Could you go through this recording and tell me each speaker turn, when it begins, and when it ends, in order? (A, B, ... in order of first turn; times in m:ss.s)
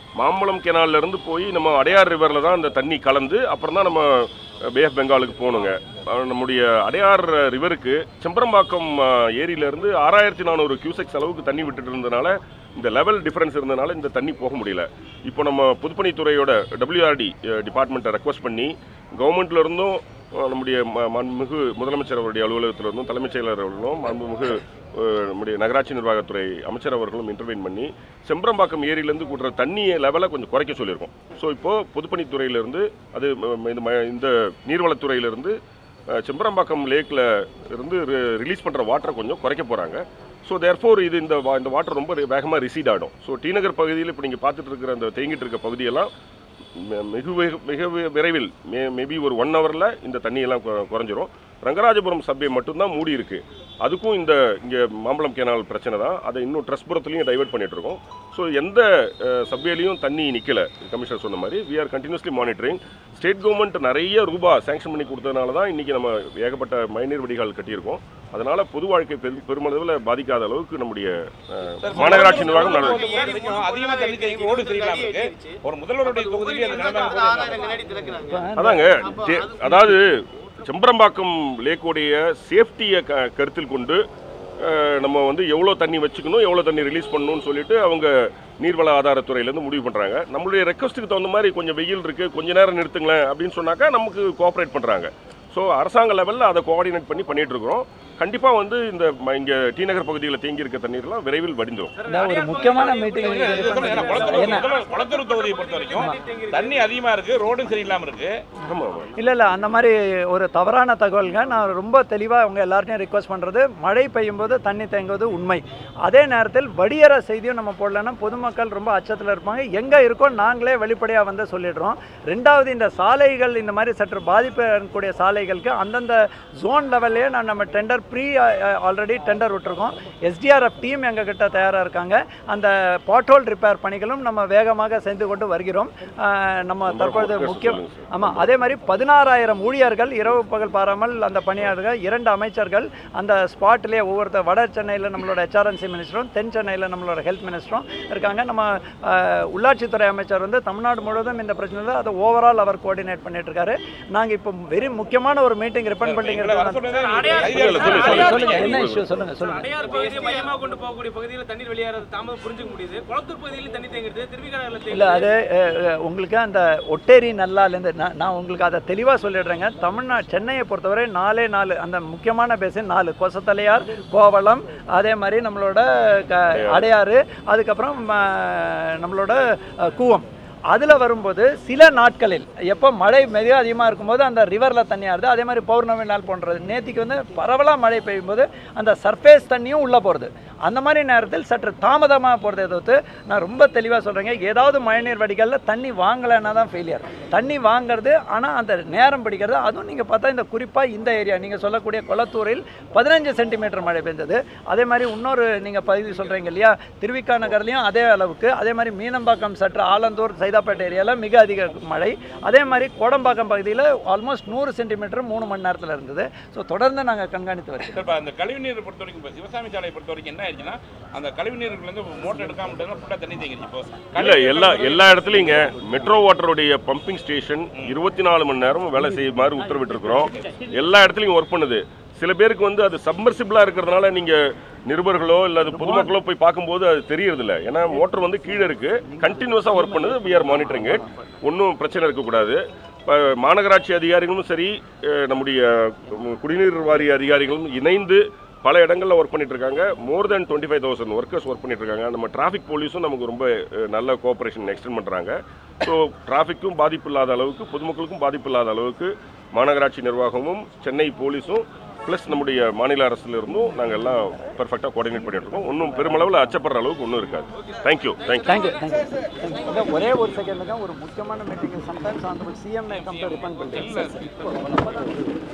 0:00.2-0:35.5 A
0:36.1-0:46.1 A
0:46.8-1:13.1 A
1:11.8-1:17.9 B
1:12.0-1:18.4 C
1:18.0-1:19.2 D
1:18.6-1:24.0 A
1:19.2-1:19.6 C
1:24.6-1:42.0 A
1:42.0-1:46.8 C
1:42.1-1:44.7 D
1:42.9-1:48.3 B
1:48.6-1:49.1 A
1:49.2-2:39.7 D
2:16.9-2:18.5 A
2:36.0-2:38.8 B
2:37.0-2:38.8 C
2:37.5-2:39.0 A
2:39.4-2:45.3 C
2:44.9-3:38.0 D
2:56.5-2:56.9 A
3:37.9-3:45.6 B
3:44.1-4:28.7 A
3:55.8-3:56.1 D
4:28.4-4:35.2 D
4:32.9-4:34.6 B